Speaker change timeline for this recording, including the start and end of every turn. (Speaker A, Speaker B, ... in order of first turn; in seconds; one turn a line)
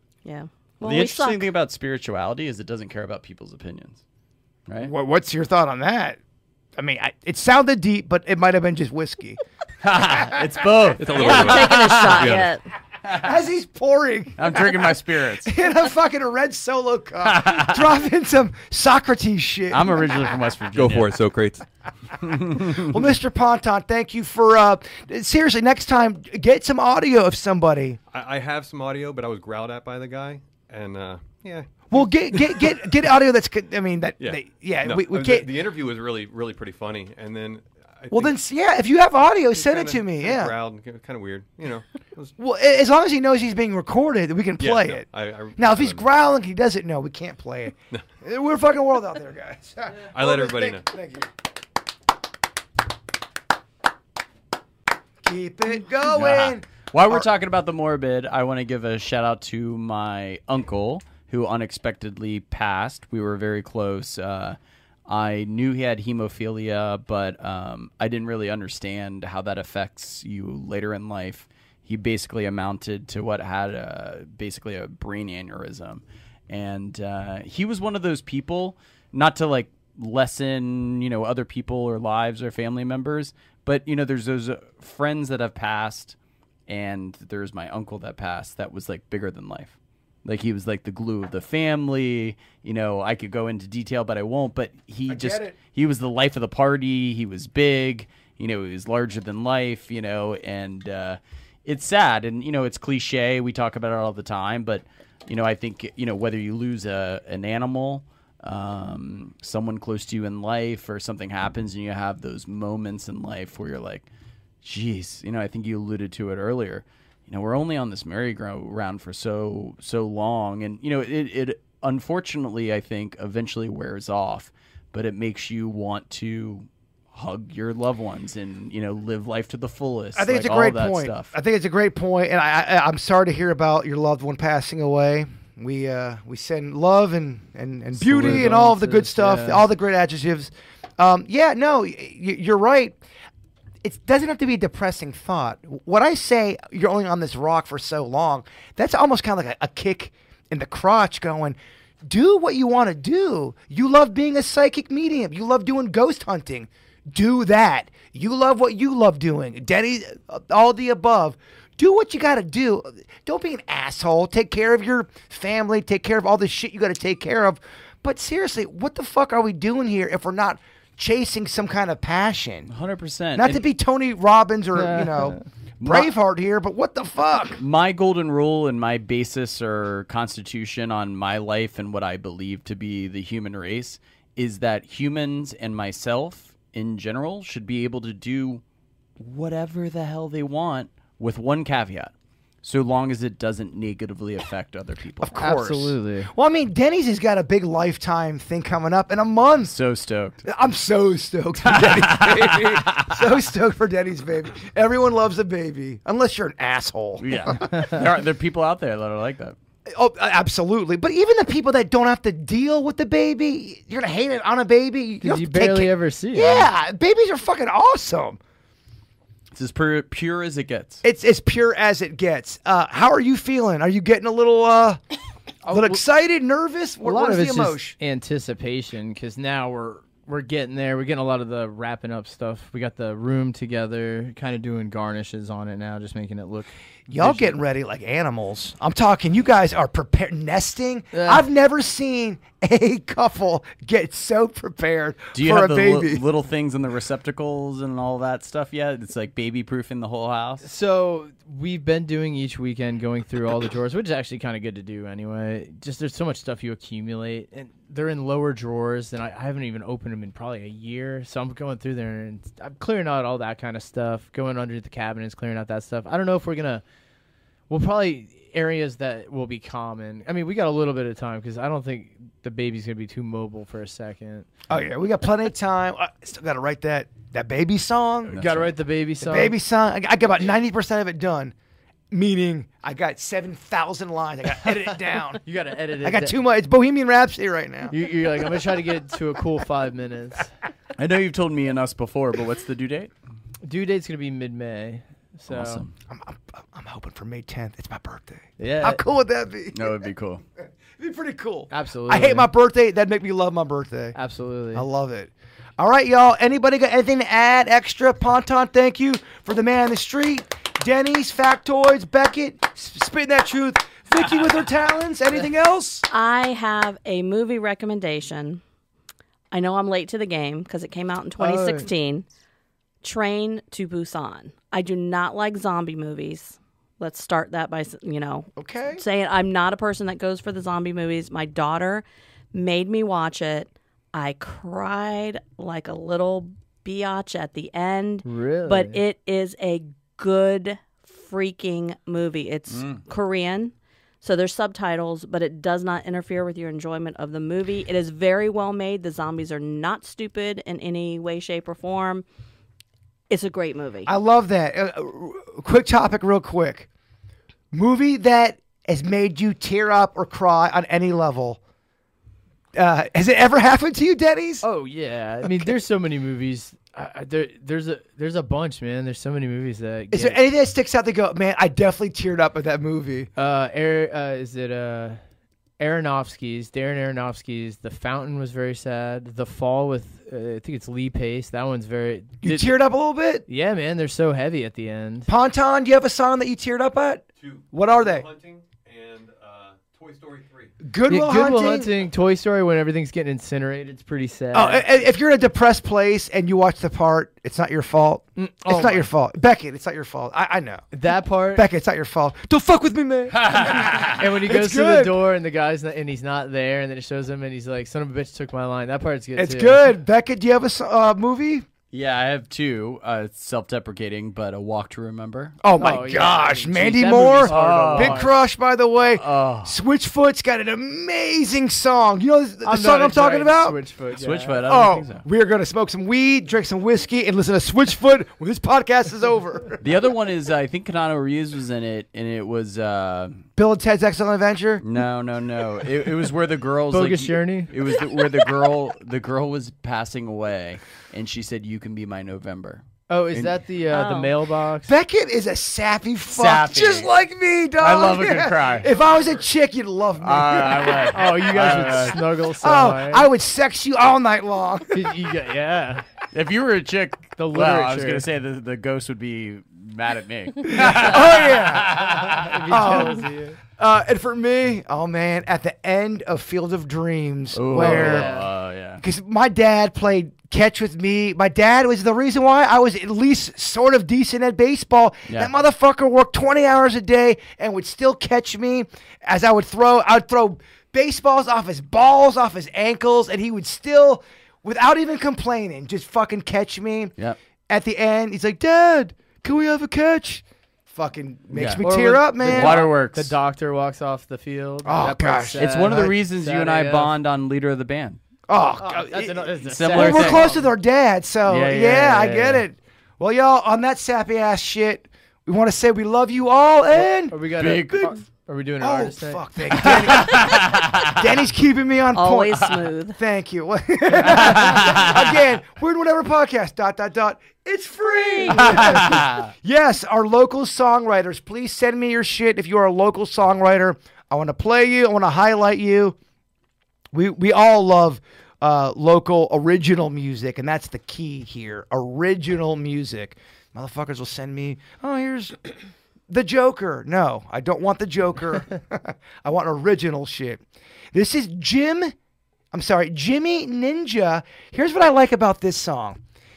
Speaker A: 0.2-1.4
Speaker B: 0.8-4.0
Speaker B: 4.7-4.9
Speaker C: 4.8-6.2
Speaker C: 6.8-9.4
Speaker B: 9.8-12.4
Speaker C: 10.0-10.5
Speaker D: 11.0-12.5
Speaker A: 11.1-12.6
Speaker C: 13.1-20.3
Speaker B: 14.4-15.5
Speaker B: 17.2-17.8
Speaker B: 19.7-21.2
Speaker D: 20.7-21.7
Speaker B: 22.2-22.9
Speaker C: 22.6-28.0
Speaker D: 28.1-32.9
Speaker C: 31.9-35.5
Speaker D: 34.2-38.4
Speaker C: 38.1-40.5
Speaker D: 39.5-42.3
Speaker C: 42.4-51.3
Speaker D: 44.6-46.1
Speaker D: 50.0-50.9
Speaker C: 55.2-57.3
Speaker B: 56.1-86.1
Speaker B: 86.7-114.1
Speaker C: 95.1-95.5
Speaker B: 114.6-131.3
Speaker C: 130.2-143.0
Speaker E: 138.0-139.6
Speaker C: 143.8-172.7
Speaker B: 172.7-173.6
Speaker C: 173.3-177.6
Speaker E: 174.7-175.4
Speaker B: 175.8-176.1
Speaker B: 177.6-188.6
Speaker B: 189.2-195.3
Speaker C: 195.2-199.7
Speaker E: 195.4-196.3
Speaker B: 199.7-200.4
Speaker C: 200.4-207.5
Speaker B: 201.6-203.2
Speaker B: 207.2-209.6
Speaker E: 207.7-208.0
Speaker C: 209.9-218.4
Speaker E: 215.2-216.7
Speaker B: 219.5-221.0
Speaker C: 221.0-225.0
Speaker E: 225.7-226.0
Speaker C: 225.7-227.9
Speaker E: 227.0-237.6
Speaker C: 237.1-246.2
Speaker E: 241.1-241.4
Speaker B: 245.3-250.6
Speaker E: 250.6-266.8
Speaker E: 267.7-274.5
Speaker C: 274.7-278.4
Speaker B: 278.3-278.8
Speaker E: 278.4-279.5
Speaker C: 279.2-281.5
Speaker C: 282.1-285.4
Speaker E: 285.4-286.4
Speaker C: 286.0-287.9
Speaker E: 287.9-290.5
Speaker B: 291.0-293.1
Speaker E: 293.6-295.8
Speaker B: 295.5-295.9
Speaker C: 296.1-300.0
Speaker E: 298.6-299.0
Speaker B: 299.7-300.4
Speaker C: 300.9-304.1
Speaker E: 301.7-302.5
Speaker E: 304.1-304.9
Speaker C: 304.7-316.1
Speaker A: 316.1-318.6
Speaker A: 319.5-322.2
Speaker E: 321.4-321.9
Speaker A: 323.0-352.2
Speaker C: 328.6-329.0
Speaker E: 338.2-339.0
Speaker B: 342.7-343.0
Speaker A: 353.3-354.1
Speaker C: 354.1-356.9
Speaker C: 357.7-361.6
Speaker C: 362.7-364.6
Speaker E: 364.6-370.4
Speaker C: 365.4-365.7
Speaker C: 370.1-373.3
Speaker E: 373.4-375.2
Speaker E: 375.8-382.7
Speaker C: 382.4-383.4
Speaker E: 383.5-385.3
Speaker C: 385.3-388.3
Speaker D: 387.4-390.8
Speaker C: 390.8-391.9
Speaker E: 391.1-394.9
Speaker C: 394.5-400.9
Speaker E: 398.4-399.0
Speaker E: 400.9-401.7
Speaker C: 401.5-405.2
Speaker B: 403.4-404.1
Speaker E: 404.0-409.8
Speaker C: 409.4-411.7
Speaker B: 411.9-415.6
Speaker C: 415.6-423.8
Speaker E: 415.8-418.3
Speaker B: 417.4-418.3
Speaker B: 419.1-419.8
Speaker E: 422.6-424.6
Speaker B: 424.1-425.2
Speaker C: 424.6-429.8
Speaker B: 429.8-433.4
Speaker C: 433.6-434.8
Speaker B: 434.8-443.6
Speaker E: 436.9-437.7
Speaker E: 443.1-444.9
Speaker A: 443.9-444.3
Speaker C: 444.9-451.2
Speaker B: 446.3-447.1
Speaker B: 447.8-448.9
Speaker B: 450.2-452.2
Speaker E: 451.1-453.3
Speaker C: 452.6-455.2
Speaker E: 454.9-456.0
Speaker B: 456.3-463.0
Speaker E: 457.4-458.2
Speaker C: 460.7-462.0
Speaker E: 462.0-463.6
Speaker C: 462.7-468.3
Speaker B: 467.5-469.0
Speaker E: 467.7-468.5
Speaker C: 469.0-487.1
Speaker C: 487.7-492.9
Speaker B: 491.5-491.8
Speaker E: 491.8-497.1
Speaker B: 492.4-493.3
Speaker C: 494.8-496.1
Speaker B: 495.6-498.2
Speaker C: 498.5-508.1
Speaker E: 498.8-500.7
Speaker B: 499.6-500.4
Speaker B: 501.4-502.6
Speaker E: 506.9-509.4
Speaker B: 507.6-508.1
Speaker C: 508.8-526.2
Speaker B: 509.7-511.2
Speaker A: 512.1-513.2
Speaker B: 514.3-515.2
Speaker B: 518.6-519.5
Speaker C: 527.1-535.7
Speaker C: 536.3-542.1
Speaker C: 542.7-546.2